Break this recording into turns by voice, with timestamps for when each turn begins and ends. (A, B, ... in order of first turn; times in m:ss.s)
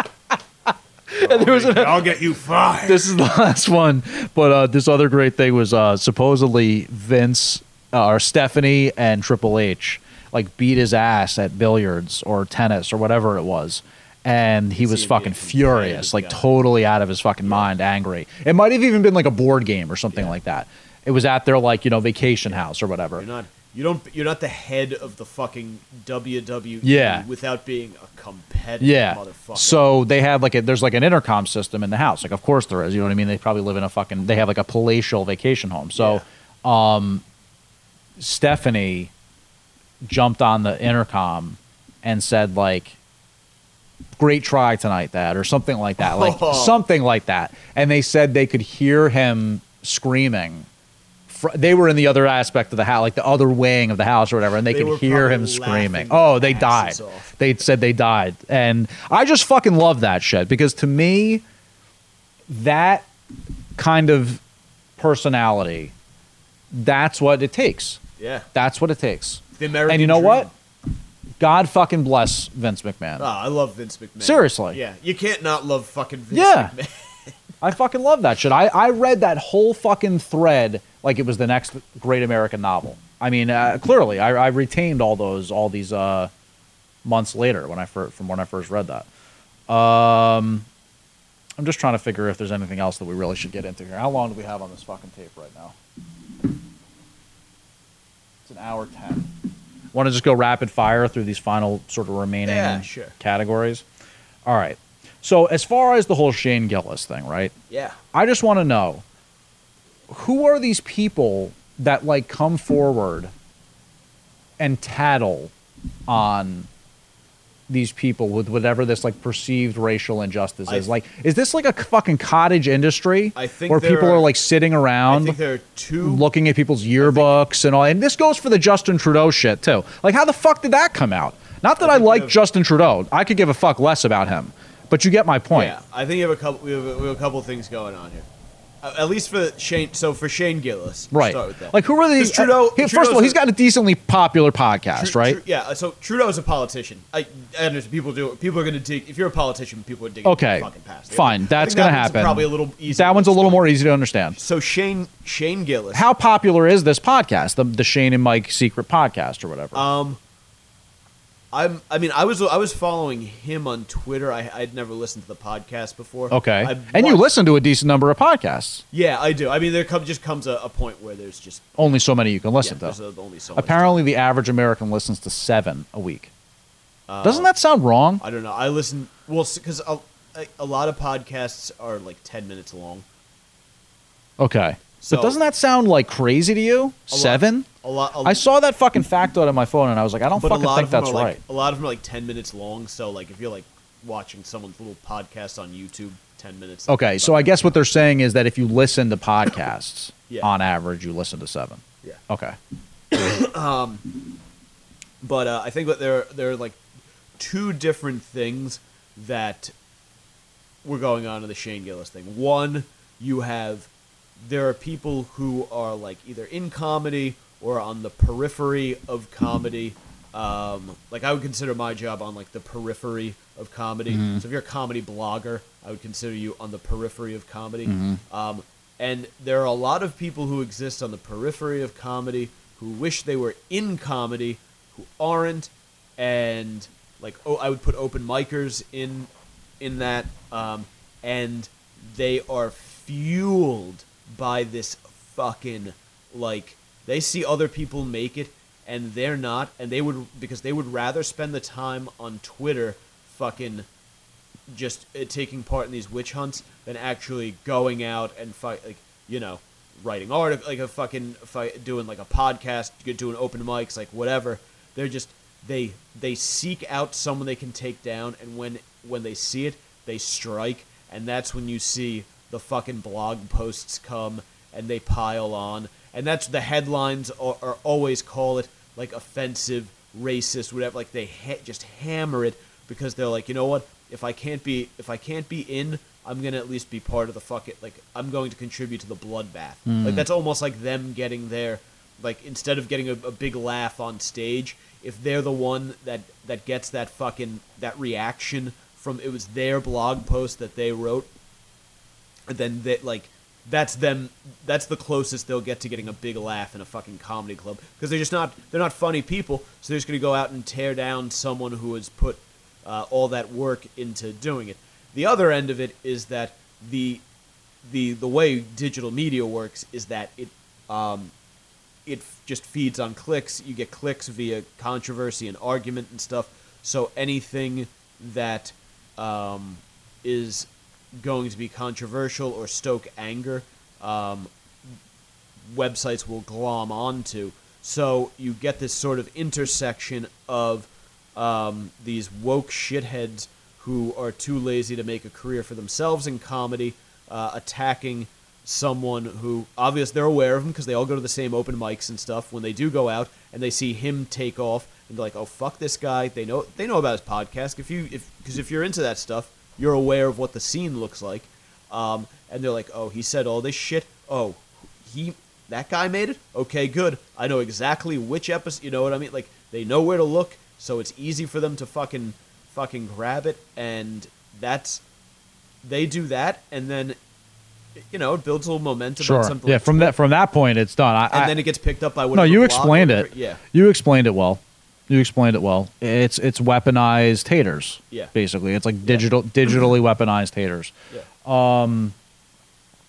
0:01.1-0:02.2 A
0:01.2-0:03.1 B
0:02.8-0:23.2 A
0:14.8-0:16.5 B
0:17.4-0:17.7 B
0:20.1-0:20.4 B
0:22.5-0:29.9 B
0:26.8-0:27.2 A
0:28.8-0:37.2 A
0:36.0-0:36.2 B
0:38.2-0:39.1 A
0:40.0-0:43.0 A
0:44.2-0:50.7 A
0:46.0-0:46.8 B
0:51.3-1:01.4 A
0:54.7-0:57.3 B
1:02.5-1:03.1 A
1:03.8-1:04.4 A
1:05.0-1:05.9 A
1:06.7-1:08.0 A
1:08.2-1:08.5 B
1:08.5-1:10.5 A
1:09.6-1:10.5 B
1:11.4-1:13.3 A
1:13.2-1:17.4 B
1:14.2-1:14.8 A
1:16.3-1:16.7 A
1:17.6-1:26.3 A
1:27.0-1:29.1 A
1:29.7-1:30.7 A
1:31.6-1:35.8 A
1:38.5-1:39.3 A
1:39.9-1:43.8 A
1:42.4-1:43.2 B
1:44.5-1:47.5 A
1:47.7-1:48.0 B
1:48.1-1:49.0 A
1:50.1-1:53.3 A
1:54.6-1:55.5 A
1:56.1-1:56.7 A
1:57.7-2:05.4 A
2:03.4-2:04.3 B
2:05.1-2:06.3 B
2:06.0-2:15.8 A
2:07.0-2:07.4 B
2:11.8-2:12.4 B
2:15.5-2:18.3 B
2:18.8-2:23.4 B
2:21.1-2:25.4 A
2:24.9-2:33.7 B
2:30.2-2:34.4 A
2:34.4-2:36.1 B
2:35.9-2:39.9 A
2:39.7-2:40.2 B
2:41.5-2:47.3 B
2:46.3-2:48.8 A
2:48.9-2:51.8 B
2:51.8-2:53.0 A
2:52.6-2:54.1 B
2:53.6-2:56.3 A
2:57.1-2:57.5 B
2:57.2-2:58.2 A
2:58.2-3:03.0 B
3:04.4-3:07.7 A
3:05.0-3:05.4 B
3:07.1-3:08.4 B
3:08.2-3:11.4 A
3:10.4-3:17.7 B
3:16.9-3:22.6 A
3:23.1-3:24.3 B
3:25.2-3:26.8 B
3:27.4-3:29.7 B
3:30.8-4:13.9 B
3:44.1-3:44.4 A
3:47.9-3:48.2 A
4:14.7-5:01.3 B
4:49.9-4:50.3 A
5:02.5-5:17.2 B
5:17.8-5:21.3 B
5:22.1-5:34.5 B
5:35.7-6:15.0 B
6:15.8-6:17.2 B
6:18.0-6:20.2 B
6:19.2-6:21.6 A
6:21.3-6:23.6 B
6:22.3-6:30.9 A
6:31.4-6:32.2 A